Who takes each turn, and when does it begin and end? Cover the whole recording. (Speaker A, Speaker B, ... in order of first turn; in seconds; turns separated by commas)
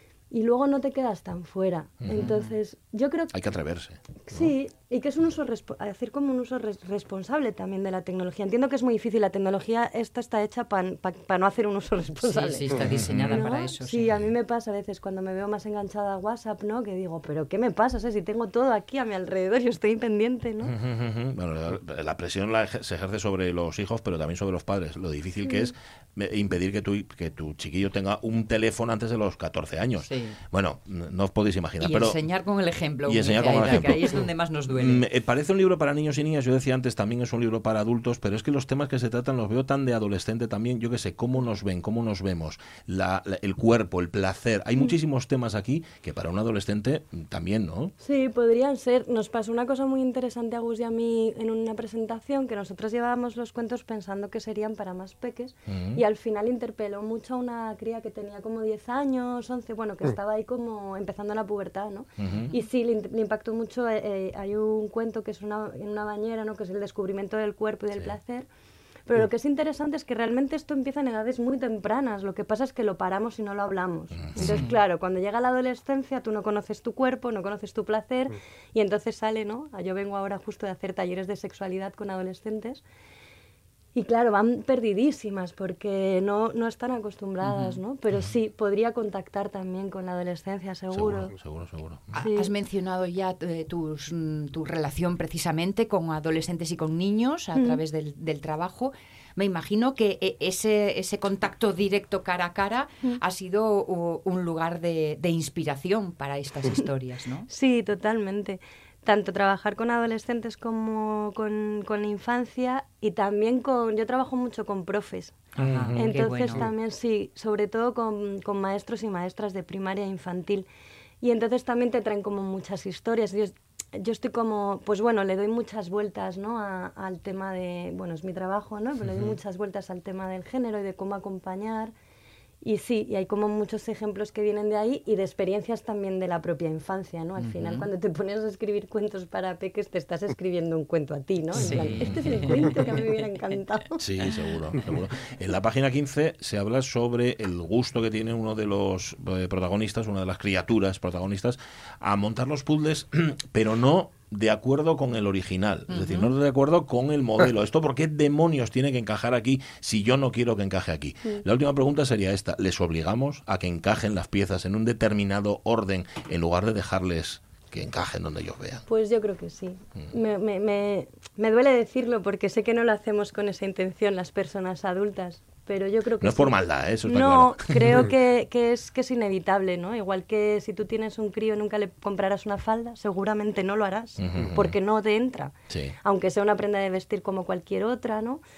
Speaker A: 0.3-3.3, Speaker B: 2.1-2.5, Speaker C: 3.3-4.5, Speaker A: 4.3-20.7, Speaker B: 12.2-14.1, Speaker C: 12.8-13.4, Speaker C: 20.6-32.2, Speaker B: 30.0-30.4, Speaker B: 31.8-35.0, Speaker C: 33.0-47.9, Speaker A: 48.0-68.5, Speaker C: 55.7-56.0, Speaker C: 62.2-62.5, Speaker A: 69.1-82.8, Speaker C: 74.1-74.6, Speaker B: 74.4-74.8, Speaker A: 83.9-91.3, Speaker B: 87.4-87.8, Speaker C: 90.9-92.2, Speaker A: 92.1-92.5, Speaker B: 92.2-107.5, Speaker A: 97.5-97.8, Speaker A: 107.5-115.4, Speaker C: 115.6-116.1, Speaker B: 115.6-116.7, Speaker A: 115.9-120.7, Speaker A: 121.2-131.9, Speaker C: 129.0-129.4, Speaker A: 132.6-144.0, Speaker B: 137.4-137.9, Speaker B: 141.5-143.0, Speaker C: 141.6-142.5, Speaker C: 144.0-168.8, Speaker B: 155.9-156.3, Speaker A: 168.9-188.4, Speaker C: 176.2-178.1, Speaker C: 184.2-184.7, Speaker C: 185.7-185.9